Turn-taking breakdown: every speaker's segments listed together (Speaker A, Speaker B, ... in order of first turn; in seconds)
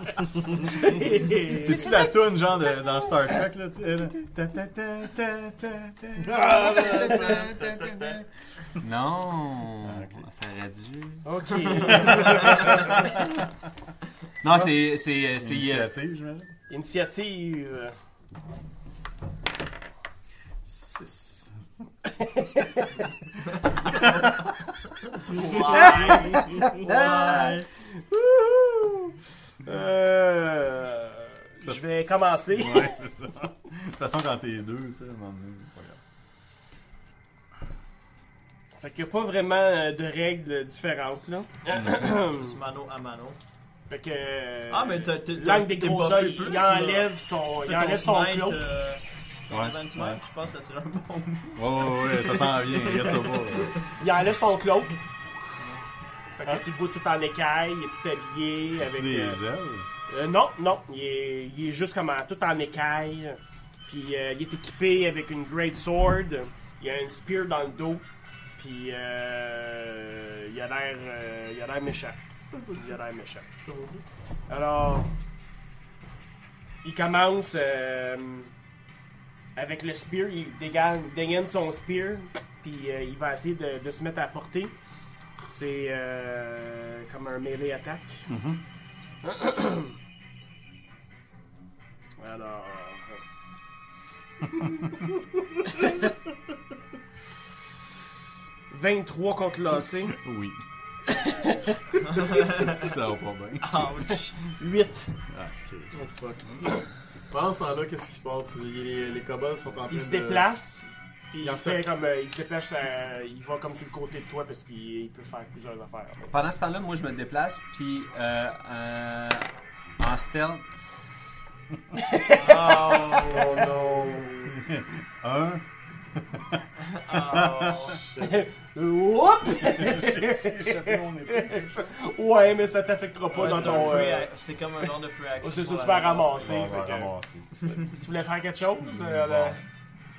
Speaker A: 0.6-2.0, 11.2-12.5, 16.7-17.9, 22.2-22.9, 25.5-27.6, 28.1-33.0, 38.8-42.5, 43.9-48.6, 54.0-55.0, 56.4-59.4, 60.1-68.0, 68.6-72.2, 72.7-73.5, 74.5-75.1, 76.8-78.5, 79.5-84.7, 85.4-88.3, 89.2-89.9, 92.2-93.2, 98.7-100.2, 101.1-102.4, 104.0-105.2, 109.9-116.4, 122.1-123.4, 128.2-134.3, 135.4-137.1, 137.9-139.6
Speaker B: 1.5-7.7, 9.8-10.2, 15.4-16.5, 20.6-21.5, 26.6-27.4, 32.4-36.0, 49.5-50.2, 51.5-53.7, 58.8-59.9, 88.3-88.6, 100.1-100.6, 102.6-104.0, 105.3-106.0, 124.5-125.6, 126.2-128.1, 129.6-131.9, 136.4-137.5, 138.9-139.6
Speaker C: 6.2-8.1, 72.5-72.9, 73.6-74.0, 105.9-106.8, 107.3-110.5, 111.4-111.9, 122.3-124.5, 127.9-128.3
Speaker D: 6.8-8.1, 8.8-11.2, 11.9-12.7, 14.4-15.9, 116.3-120.8
Speaker E: 25.2-27.6, 41.9-43.4, 44.7-53.8, 102.1-102.9, 103.6-104.4, 126.8-128.0, 133.3-136.5